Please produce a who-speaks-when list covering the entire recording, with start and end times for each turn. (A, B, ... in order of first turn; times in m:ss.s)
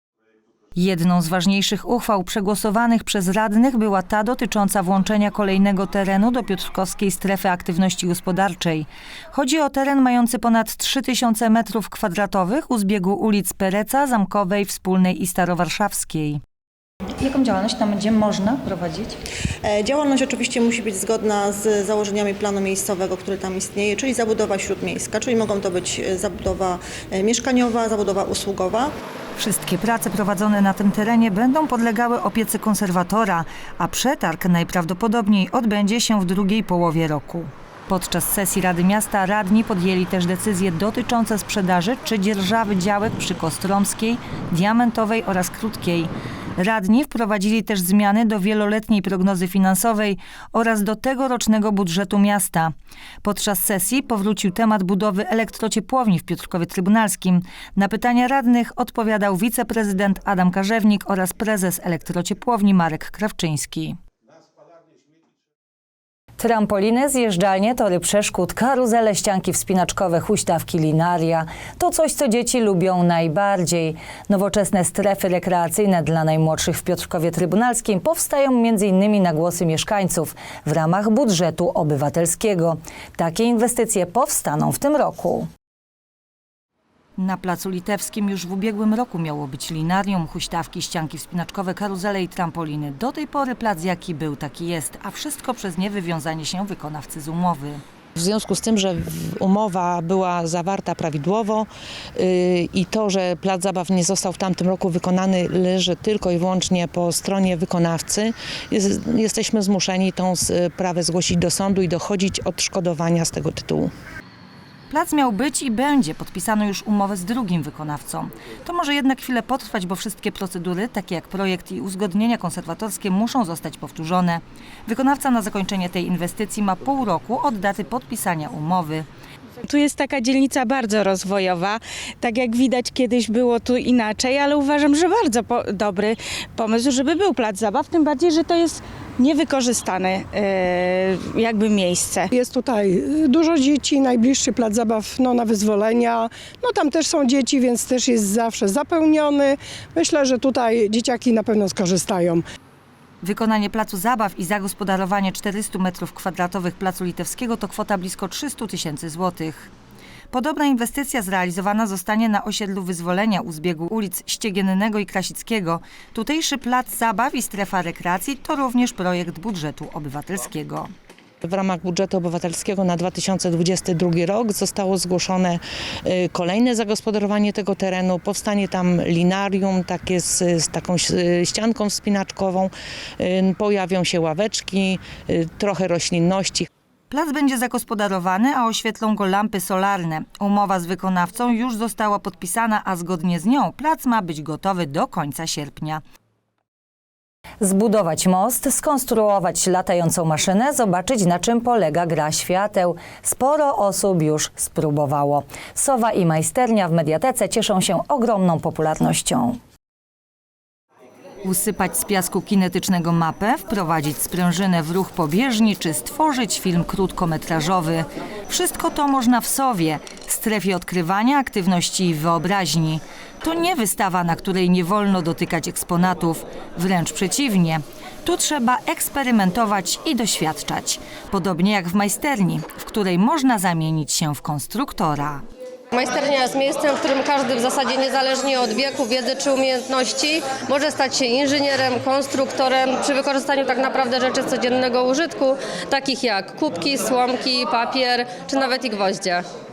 0:00.7-0:16.4 A
0:17.2-0:19.2 A
0:19.6-0:28.9 B
0:29.4-0:52.7 A
0:53.2-1:04.0 A
1:06.4-1:25.5 A
1:27.2-1:37.8 A
1:38.2-1:53.9 C
1:54.9-2:09.1 A
2:09.7-2:22.3 D
2:22.3-2:32.4 E
2:33.2-2:39.7 A
2:40.3-2:50.9 A
2:51.4-3:06.7 C
3:07.1-3:16.0 A
3:17.6-3:29.6 A
3:31.4-3:55.4 A
3:55.9-4:09.4 F